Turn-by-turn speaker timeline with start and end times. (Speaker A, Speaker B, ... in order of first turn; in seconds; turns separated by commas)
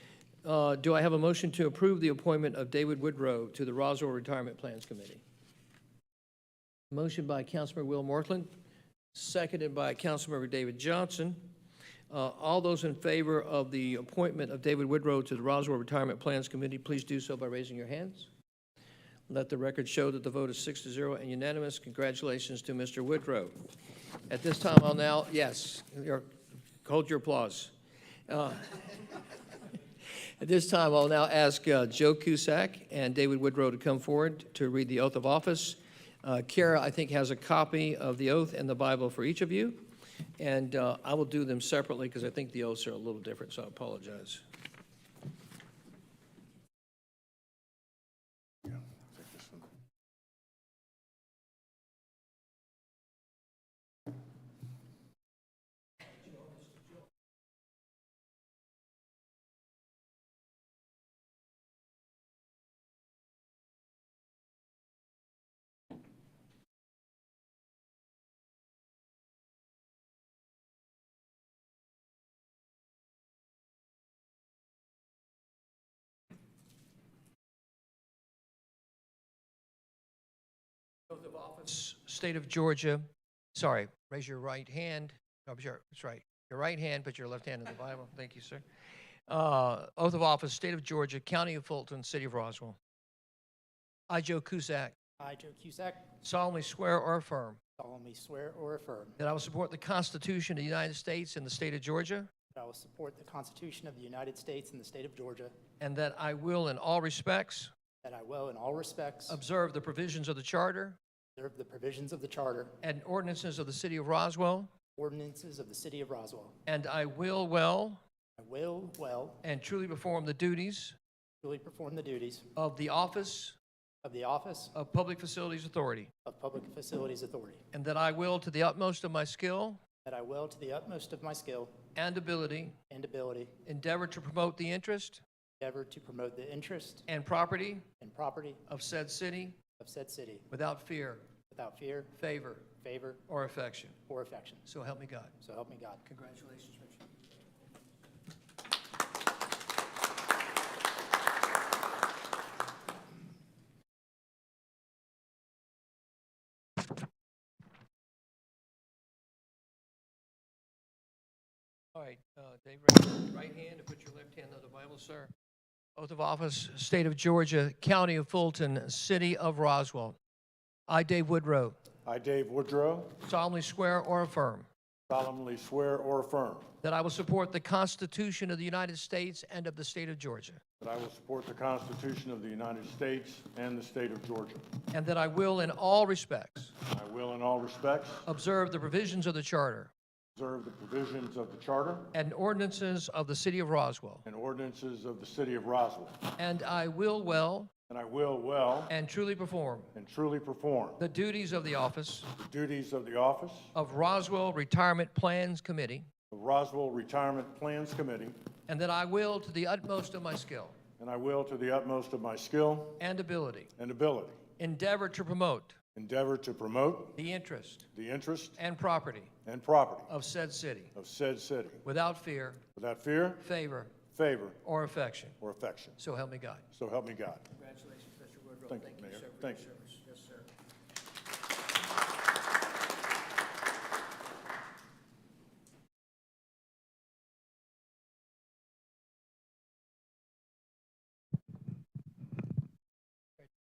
Speaker A: 0.4-5.2, Speaker A: 6.9-8.5, Speaker A: 9.1-11.5, Speaker A: 12.1-18.3, Speaker A: 19.3-23.6, Speaker A: 24.3-26.3, Speaker A: 26.8-27.7, Speaker A: 28.3-28.8, Speaker A: 30.4-44.4, Speaker B: 49.2-49.6, Speaker A: 81.1-88.6, Speaker A: 89.3-92.8, Speaker A: 94.1-95.0, Speaker C: 95.2-96.1, Speaker A: 96.2-97.6, Speaker C: 97.8-99.2, Speaker A: 99.2-102.3, Speaker C: 102.5-105.5, Speaker A: 105.8-107.7, Speaker C: 108.0-109.4, Speaker A: 109.3-111.0, Speaker C: 111.4-112.8, Speaker A: 112.8-114.7, Speaker C: 115.0-116.5, Speaker A: 116.7-118.0, Speaker C: 118.4-119.4, Speaker A: 119.4-121.0, Speaker C: 121.4-122.5, Speaker A: 122.6-123.6, Speaker C: 124.0-124.8, Speaker A: 124.7-126.1, Speaker C: 126.2-127.6, Speaker A: 127.7-129.8, Speaker C: 130.0-131.7, Speaker A: 131.9-132.8, Speaker C: 132.9-133.5, Speaker A: 133.7-135.2, Speaker C: 135.6-137.1, Speaker A: 137.1-137.8, Speaker C: 138.0-138.6, Speaker A: 138.7-139.6, Speaker C: 139.8-140.5, Speaker A: 140.5-141.2, Speaker C: 141.5-142.1, Speaker A: 142.2-142.7, Speaker C: 142.8-143.2, Speaker A: 143.3-144.0, Speaker C: 144.1-144.7, Speaker A: 144.7-145.3, Speaker C: 145.4-146.0, Speaker A: 146.1-147.0, Speaker A: 161.9-165.3, Speaker A: 165.9-170.2, Speaker A: 170.9-171.8, Speaker B: 172.0-173.2, Speaker A: 173.2-174.7, Speaker B: 175.1-176.7, Speaker A: 176.8-180.6, Speaker B: 180.8-184.7, Speaker A: 184.9-186.8, Speaker B: 186.9-188.2, Speaker A: 188.2-189.9, Speaker B: 190.3-192.1, Speaker A: 192.1-194.2, Speaker B: 194.2-196.2, Speaker A: 196.4-197.7, Speaker B: 197.9-198.9, Speaker A: 198.9-199.9, Speaker B: 199.9-201.0, Speaker A: 201.0-202.3, Speaker B: 202.3-203.7, Speaker A: 203.7-206.1, Speaker B: 206.3-208.4, Speaker A: 208.7-210.8, Speaker B: 211.0-213.0, Speaker A: 213.0-213.7, Speaker B: 213.8-214.4, Speaker A: 214.6-215.8, Speaker B: 215.9-217.2, Speaker A: 217.2-217.9, Speaker B: 217.9-218.6, Speaker A: 218.6-219.3, Speaker B: 219.4-220.1, Speaker A: 220.1-220.9, Speaker B: 220.9-221.8, Speaker A: 221.8-222.6, Speaker B: 222.8-223.4, Speaker A: 223.4-224.0, Speaker B: 224.1-224.6, Speaker A: 224.6-225.4, Speaker B: 225.4-226.0, Speaker A: 226.0-226.7, Speaker B: 226.7-227.5, Speaker A: 227.5-230.5, Speaker B: 228.7-229.7